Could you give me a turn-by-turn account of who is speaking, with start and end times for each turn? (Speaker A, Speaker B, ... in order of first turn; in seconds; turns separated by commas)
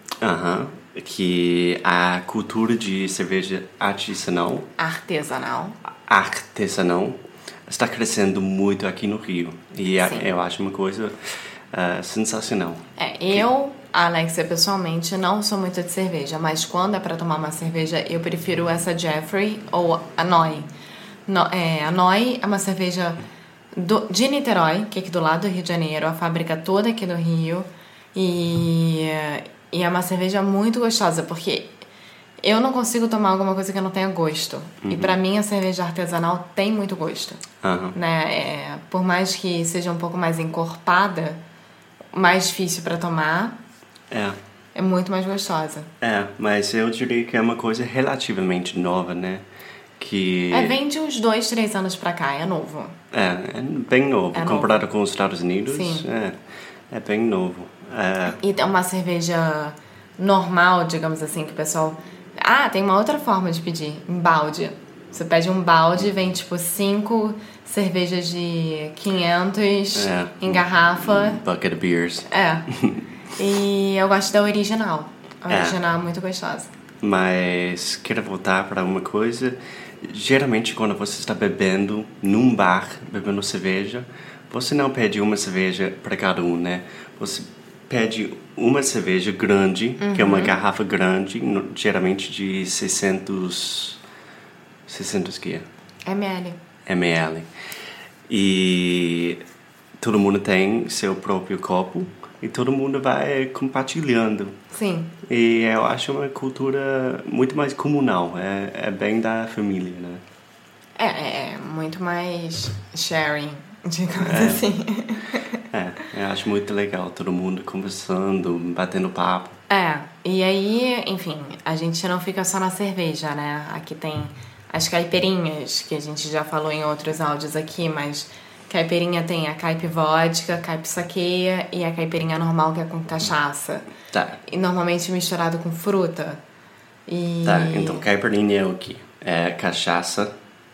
Speaker A: 0.2-4.7, Speaker B: 4.8-5.8, Speaker A: 6.1-11.2, Speaker B: 10.0-10.3, Speaker A: 11.7-13.5, Speaker B: 13.0-20.7, Speaker B: 21.3-23.2, Speaker B: 23.7-31.8, Speaker B: 32.4-37.4, Speaker A: 34.8-35.2, Speaker A: 37.6-38.0, Speaker B: 38.0-41.4, Speaker B: 42.1-43.6, Speaker A: 44.1-44.4, Speaker B: 44.7-45.9, Speaker A: 46.0-49.5, Speaker A: 50.0-50.8, Speaker B: 50.5-53.0, Speaker A: 53.1-56.4, Speaker B: 54.3-54.8, Speaker B: 55.7-56.1, Speaker A: 56.9-58.4, Speaker B: 58.3-71.4, Speaker A: 70.0-73.0, Speaker B: 72.3-72.7, Speaker B: 73.3-76.7, Speaker A: 75.5-75.8, Speaker A: 77.0-94.0, Speaker B: 90.0-90.6, Speaker A: 94.9-95.7, Speaker B: 96.0-96.6, Speaker A: 96.8-97.5, Speaker A: 98.3-99.4, Speaker A: 100.0-104.5, Speaker B: 104.7-105.1, Speaker A: 105.3-110.2, Speaker B: 111.0-115.5, Speaker A: 114.2-114.7, Speaker A: 115.7-119.6, Speaker B: 119.7-133.9, Speaker A: 134.1-134.4, Speaker B: 134.4-136.4, Speaker B: 137.1-138.1, Speaker A: 137.4-140.3